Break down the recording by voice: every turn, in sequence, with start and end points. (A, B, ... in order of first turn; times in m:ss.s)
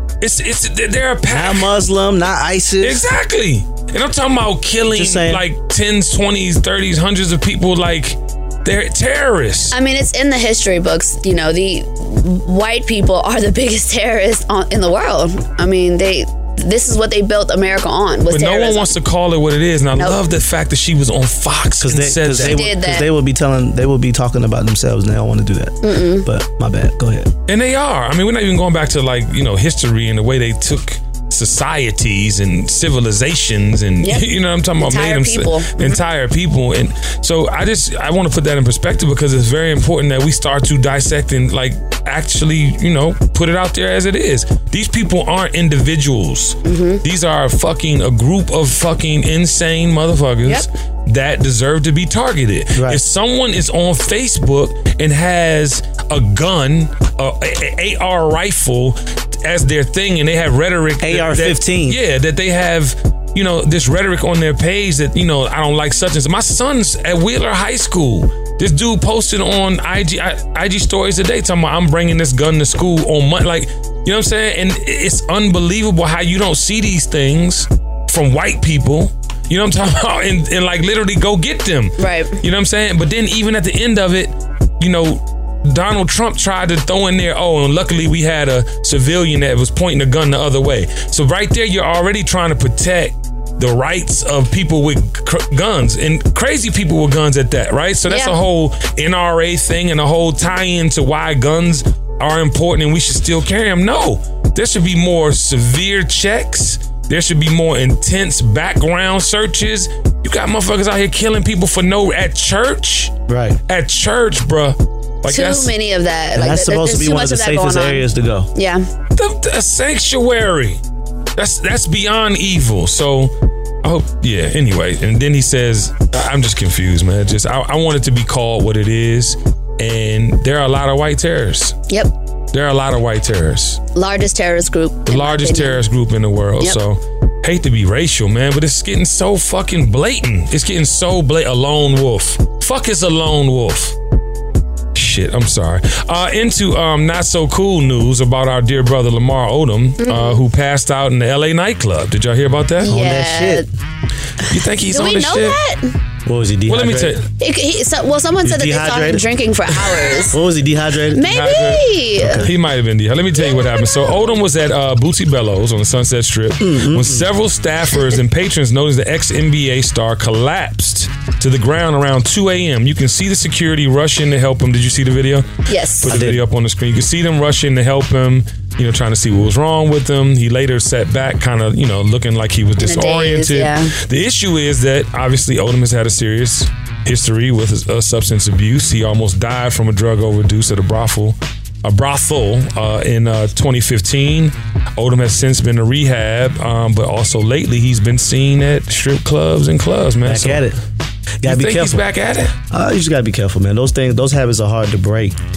0:00.2-0:01.7 A
0:01.3-0:03.1 B
0:02.8-0:09.7 A
0:04.9-0:05.4 B
0:09.7-0:18.9 C
0:18.3-0:22.6 A
0:21.8-0:27.3 B
0:22.4-0:23.1 C
0:25.8-0:26.2 C
0:27.5-1:53.1 A
0:34.8-0:36.0 C
0:46.6-0:47.0 C
0:52.7-0:53.0 B
1:01.0-1:02.0 B
1:22.0-1:22.4 C
1:38.1-1:38.3 C
1:53.3-1:53.6 B
1:53.7-1:55.7 A
1:55.3-1:58.8 C
1:56.3-1:58.5 B
1:59.1-2:00.8 A
2:01.4-2:03.3 A
2:03.8-2:11.8 A
2:12.5-2:13.8 A
2:13.9-2:15.8 C
2:15.1-2:24.0 A
2:24.9-2:32.9 A
2:30.0-2:30.4 C
2:32.8-2:33.6 C
2:32.9-2:33.6 B
2:34.4-2:35.6 A
2:34.9-2:35.9 C
2:36.2-2:37.2 B
2:36.7-2:37.2 A
2:37.4-2:40.4 C
2:38.4-2:39.2 B
2:40.3-2:41.3 B
2:41.1-2:42.5 C
2:41.2-2:55.5 A
2:42.2-2:42.5 B
2:43.4-2:44.1 C
2:46.6-2:47.3 B
2:55.7-2:56.1 C
2:56.0-3:20.6 A
2:56.1-2:56.4 B
3:02.8-3:03.9 C
3:20.2-3:20.8 B
3:21.4-3:22.0 B
3:21.4-3:22.5 A
3:22.7-3:25.4 B